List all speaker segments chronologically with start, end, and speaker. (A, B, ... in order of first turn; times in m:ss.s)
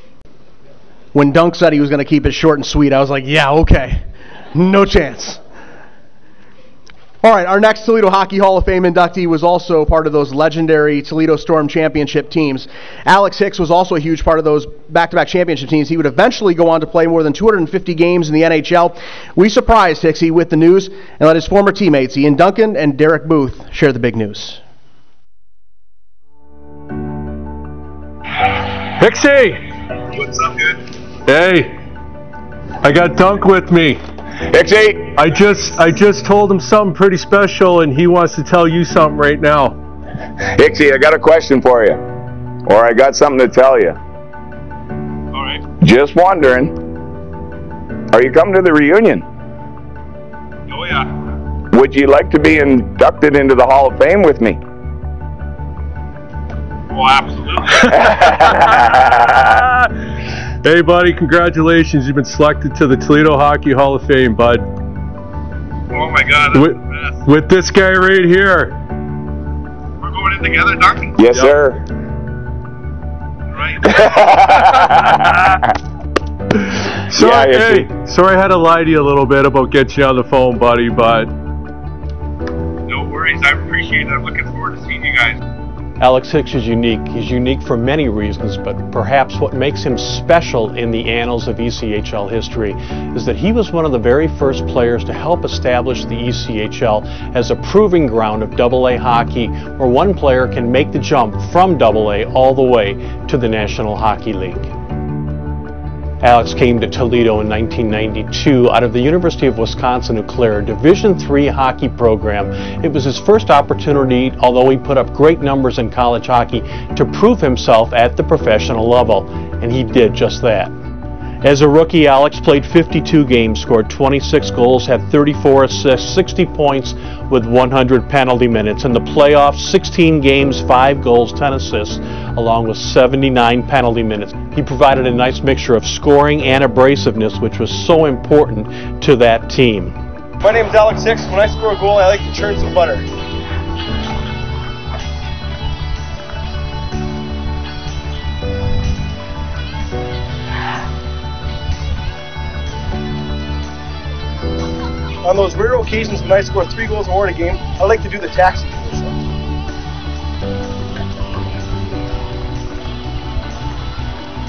0:01.1-0:05.4 A
0:07.2-0:24.6 A
0:29.0-0:29.7 B
0:30.1-0:30.8 C
0:31.3-0:31.8 B
0:32.8-0:34.0 B
0:34.4-0:35.2 D
0:35.2-0:39.8 B
0:40.5-0:42.0 D
0:42.7-0:44.0 D
0:45.3-0:45.7 C
0:45.8-0:46.8 D
0:48.1-0:49.3 D
0:50.7-0:51.1 C
0:51.7-0:54.6 D
0:56.9-0:57.8 C
0:57.9-0:59.5 D
1:00.6-1:04.7 B
1:05.9-1:07.2 C
1:06.5-1:08.8 B
1:10.0-1:11.4 C
1:11.2-1:11.8 D
1:13.5-1:13.9 C
1:13.8-1:15.4 D
1:17.1-1:21.4 B
1:17.2-1:17.9 D
1:22.9-1:25.4 C
1:26.0-1:44.7 E
1:46.2-2:00.7 E
2:01.4-2:20.0 E
2:20.4-2:23.1 F
2:35.2-2:39.2 F